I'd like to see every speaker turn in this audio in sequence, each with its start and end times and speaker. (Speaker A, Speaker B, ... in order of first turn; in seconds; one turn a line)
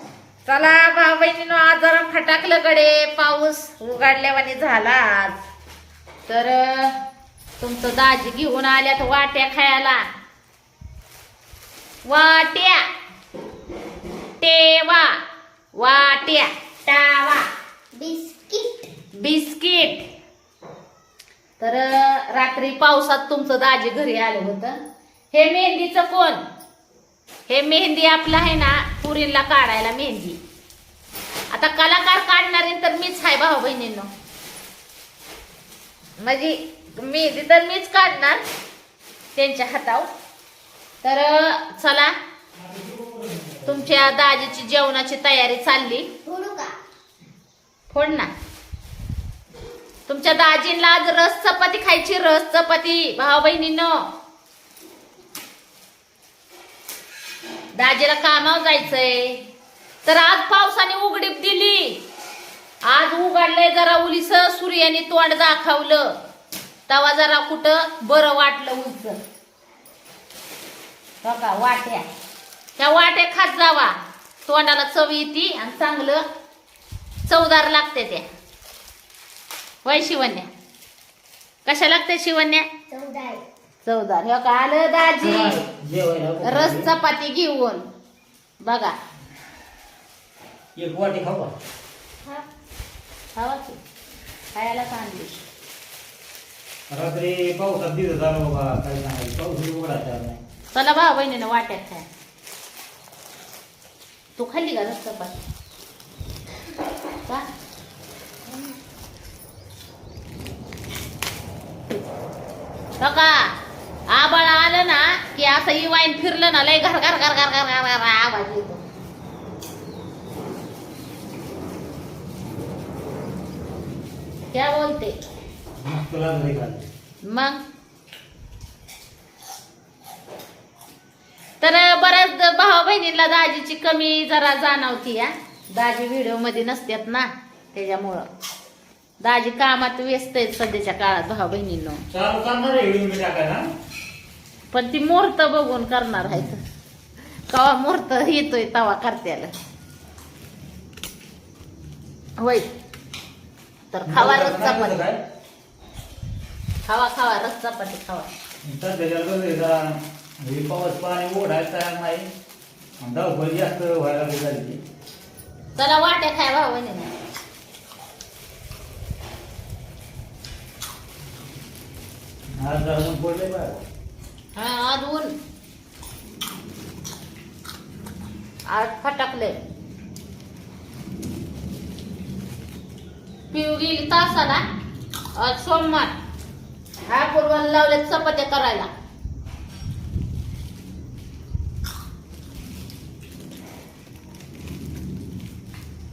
Speaker A: 0.5-5.4
Speaker A: 6.3-7.0
Speaker A: 7.6-10.1
Speaker A: 12.1-12.8
Speaker A: 14.4-15.2
Speaker A: 15.8-17.5
Speaker B: 17.9-18.9
Speaker A: 19.1-20.1
Speaker A: 21.6-24.8
Speaker A: 25.3-26.4
Speaker A: 27.5-30.4
Speaker A: 31.5-34.1
Speaker A: 36.2-38.4
Speaker A: 39.4-40.1
Speaker A: 41.0-42.1
Speaker C: 42.6-43.7
Speaker A: 43.7-46.1
Speaker B: 46.2-46.8
Speaker A: 47.9-48.3
Speaker A: 50.1-54.1
Speaker A: 57.8-59.4
Speaker A: 60.0-62.0
Speaker A: 62.9-66.1
Speaker A: 66.9-69.2
Speaker A: 71.2-72.1
Speaker A: 72.8-76.2
Speaker A: 77.2-78.2
Speaker A: 79.8-80.5
Speaker A: 81.7-82.7
Speaker B: 82.9-83.4
Speaker A: 83.8-85.6
Speaker C: 85.2-86.9
Speaker A: 86.4-87.8
Speaker A: 88.6-89.0
Speaker C: 90.8-91.5
Speaker A: 93.4-93.8
Speaker A: 94.5-95.4
Speaker C: 96.9-100.4
Speaker A: 100.7-102.0
Speaker A: 104.4-105.3
Speaker A: 113.0-113.5
Speaker A: 114.1-118.8
Speaker A: 124.5-125.2
Speaker C: 125.8-126.9
Speaker A: 127.2-127.6
Speaker A: 131.6-138.3
Speaker A: 139.2-142.1
Speaker C: 142.1-143.7
Speaker A: 144.7-146.6
Speaker A: 147.5-149.5
Speaker A: 152.4-152.7
Speaker A: 153.9-154.9
Speaker C: 154.1-155.2
Speaker A: 156.8-158.3
Speaker C: 158.6-162.3
Speaker C: 163.0-164.8
Speaker A: 165.8-167.1
Speaker C: 172.6-173.8
Speaker A: 174.6-175.3
Speaker A: 178.7-179.6
Speaker A: 183.5-184.6
Speaker A: 185.4-186.1
Speaker A: 187.1-188.9